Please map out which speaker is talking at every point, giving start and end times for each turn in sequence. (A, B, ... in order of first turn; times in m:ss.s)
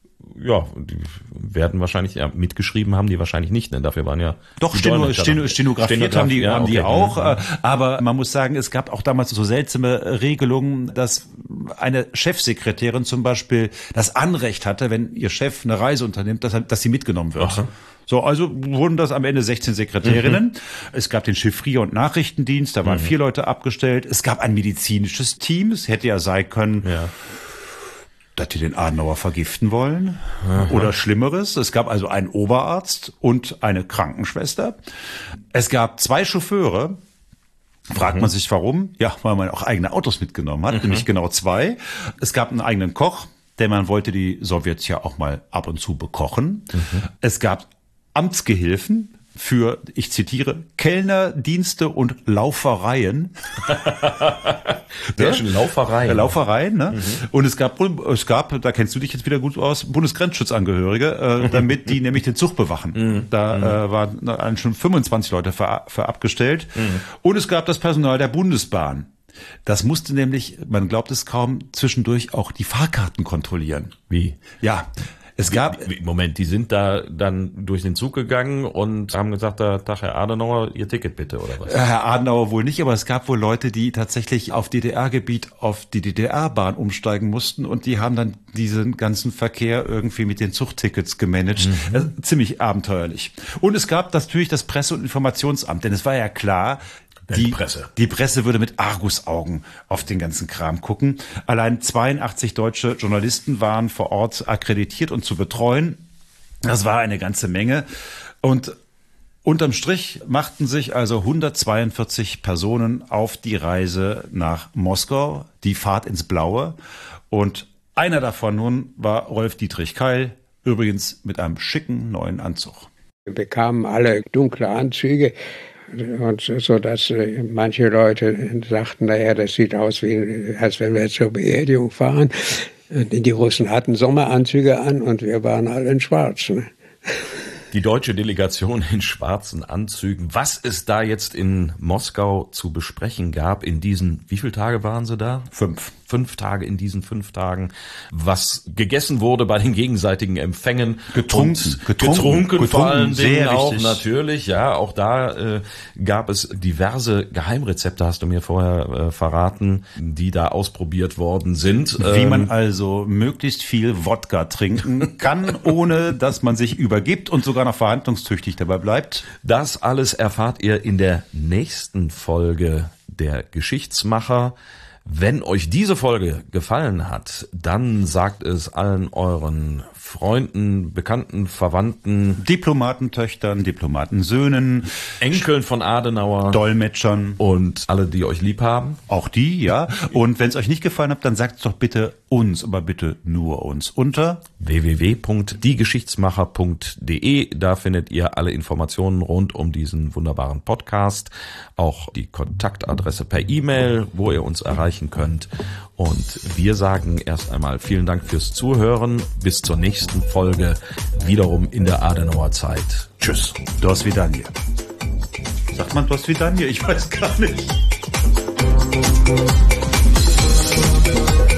0:00.2-0:07.4 A
0:04.6-0:26.9 B
0:17.4-0:17.7 A
0:20.0-0:20.4 A
0:22.8-0:23.1 A
0:26.8-0:27.1 A
0:28.4-0:34.8 B
0:30.4-0:30.9 A
0:35.5-0:37.0 B
0:37.9-0:53.3 B
0:38.0-0:38.3 A
0:40.7-0:41.0 A
0:46.7-0:47.0 A
0:53.7-0:56.3 A
0:55.2-0:55.4 B
0:56.0-1:09.1 B
0:56.9-0:57.2 A
1:03.0-1:03.8 A
1:09.7-1:14.0 B
1:14.1-1:14.4 A
1:14.6-1:15.9 B
1:15.5-1:21.8 A
1:21.7-1:46.0 B
1:31.7-1:32.0 A
1:37.3-1:37.9 A
1:46.6-1:47.9 B
1:48.4-1:48.8 B
1:49.4-1:56.8 B
1:57.3-2:02.9 B
2:03.3-2:05.4 C
2:05.9-2:17.3 C
2:17.7-2:25.5 A
2:25.5-2:25.9 B
2:26.1-2:42.5 A
2:31.1-2:34.0 B
2:42.0-2:49.3 B
2:49.4-3:02.4 A
3:02.4-3:05.1 B
3:05.2-3:06.6 A
3:06.5-3:07.4 B
3:07.4-3:09.0 A
3:09.1-3:14.4 B
3:14.6-3:33.6 A
3:33.8-3:34.5 B
3:35.7-3:37.8 B